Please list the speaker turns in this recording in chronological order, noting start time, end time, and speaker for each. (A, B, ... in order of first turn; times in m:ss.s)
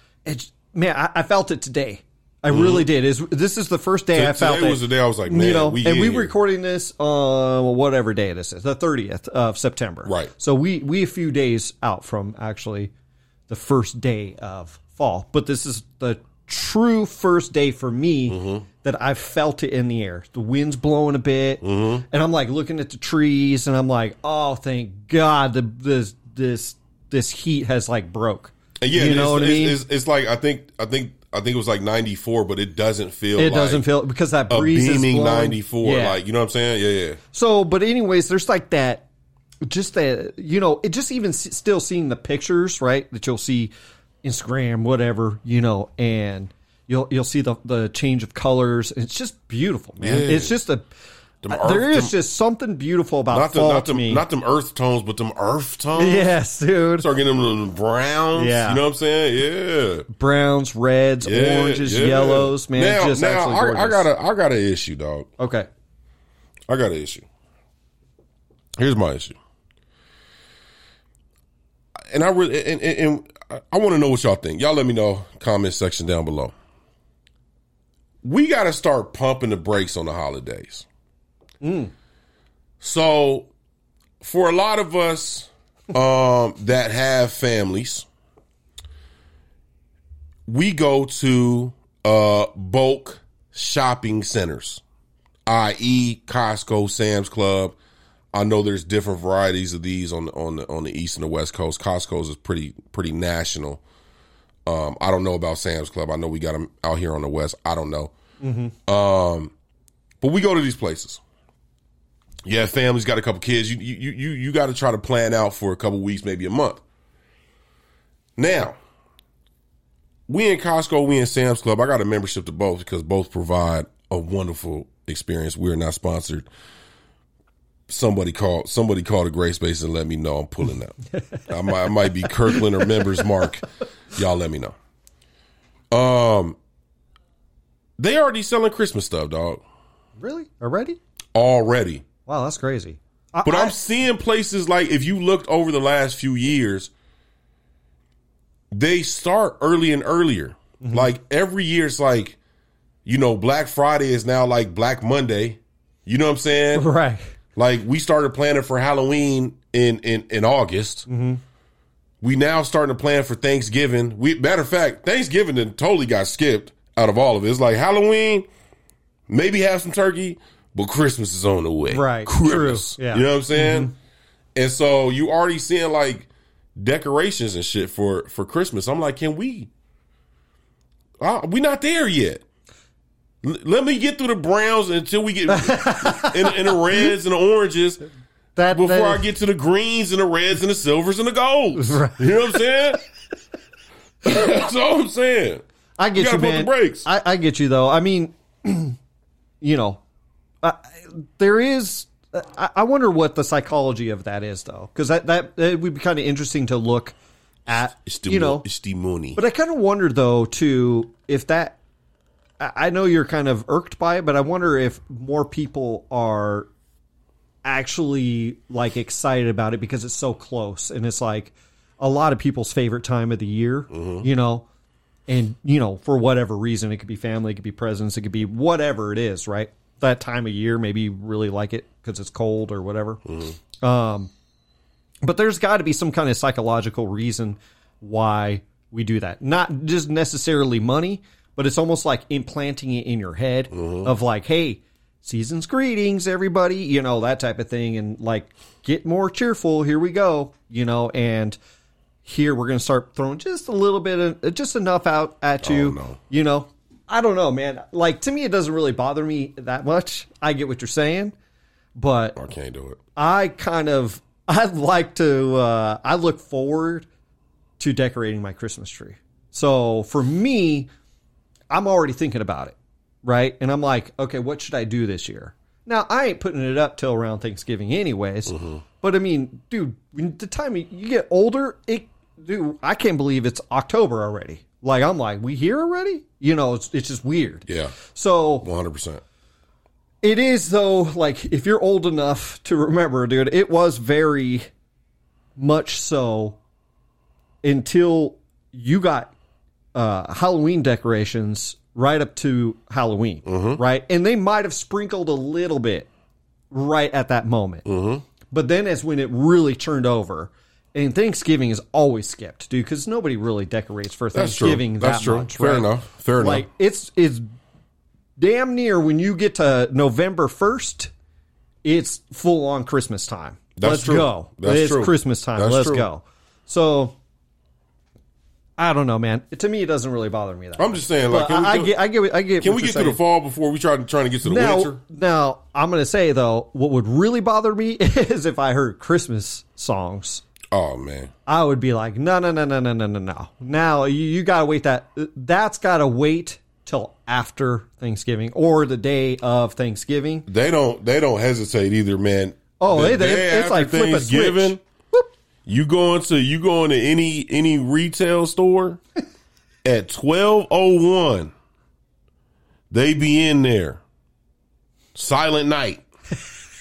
0:00.2-0:12.9 A
0:02.5-0:02.9 B
0:04.1-0:06.3 B
0:10.0-0:10.3 B
0:13.5-0:29.8 A
0:18.3-0:18.6 B
0:21.6-0:22.0 B
0:28.8-0:33.9 B
0:33.4-0:36.2 A
0:34.5-0:37.2 B
0:37.3-0:39.1 A
0:39.6-0:43.7 A
0:44.2-0:50.8 A
0:50.0-0:50.6 B
0:51.4-0:52.1 B
0:51.5-0:54.2 A
0:53.3-0:56.3 B
0:56.0-0:57.1 A
0:57.0-1:00.0 B
0:58.3-0:58.8 A
1:00.1-1:04.0 A
1:01.2-1:05.3 B
1:05.4-1:05.7 A
1:06.7-1:07.2 B
1:08.8-1:09.4 B
1:12.1-1:16.5 B
1:18.2-1:20.8 B
1:21.6-1:21.9 A
1:22.8-1:23.5 B
1:24.2-1:28.0 B
1:30.5-1:34.8 B
1:35.4-1:37.8 B
1:38.3-1:43.8 B
1:44.6-1:48.1 B
1:48.4-1:48.7 A
1:48.9-1:49.5 B
1:50.2-1:51.2 B
1:52.4-1:56.8 B
1:58.4-1:58.8 B
2:00.3-2:06.5 B
2:07.9-2:11.0 B
2:11.1-2:13.4 A
2:11.5-2:14.7 B
2:15.9-2:16.6 B
2:18.0-2:19.6 B
2:20.2-2:21.0 A
2:21.3-2:22.0 B
2:22.3-2:23.7 A
2:23.4-2:26.9 B
2:28.7-2:32.4 B
2:30.8-2:31.1 A
2:33.0-2:36.8 B
2:36.7-2:37.2 A
2:37.6-2:41.1 B
2:41.1-2:41.4 A
2:42.2-2:48.4 B
2:49.3-2:53.9 B
2:51.9-2:53.9 A
2:54.5-2:59.7 B
3:01.2-3:02.4 B
3:03.4-3:08.0 B
3:05.5-3:07.1 A
3:08.6-3:09.2 A
3:08.7-3:13.0 B
3:11.7-3:12.6 A
3:14.2-3:15.6 B
3:16.0-3:19.0 A
3:16.2-3:17.1 B
3:19.6-3:20.0 A
3:20.6-3:27.2 A
3:27.7-3:28.6 A
3:28.0-3:29.4 B
3:29.4-3:31.8 A
3:32.6-3:36.7 A
3:37.6-3:44.7 A
3:43.9-3:44.3 B
3:45.3-3:53.2 A
3:53.3-3:53.6 B
3:53.8-3:54.3 A
3:55.2-4:11.6 A
4:03.7-4:04.1 B
4:12.2-4:21.3 A
4:15.6-4:16.2 B
4:22.0-4:22.4 A
4:22.4-4:23.0 B
4:23.2-4:27.1 A
4:27.8-4:30.9 A
4:31.7-4:48.6 A
4:38.5-4:38.8 B
4:47.7-4:48.0 B
4:48.6-4:49.2 B
4:50.2-4:54.7 A
4:55.6-4:56.6 A
4:57.6-4:59.3 A
4:59.9-5:06.1 A
5:03.4-5:03.8 B
5:06.7-5:07.9 A
5:07.8-5:08.2 B
5:08.5-5:17.4 A
5:14.3-5:16.6 B
5:18.4-5:21.1 A
5:21.8-5:27.2 A
5:23.8-5:26.1 B
5:28.8-5:33.2 A
5:30.8-5:32.0 B
5:32.6-5:35.0 B
5:34.4-5:40.4 A
5:40.7-5:41.3 B
5:41.5-5:50.5 A
5:50.5-5:54.8 B
5:52.8-5:55.3 A
5:55.6-5:59.0 B
5:59.8-6:01.5 B
6:02.9-6:04.0 B
6:05.1-6:06.0 B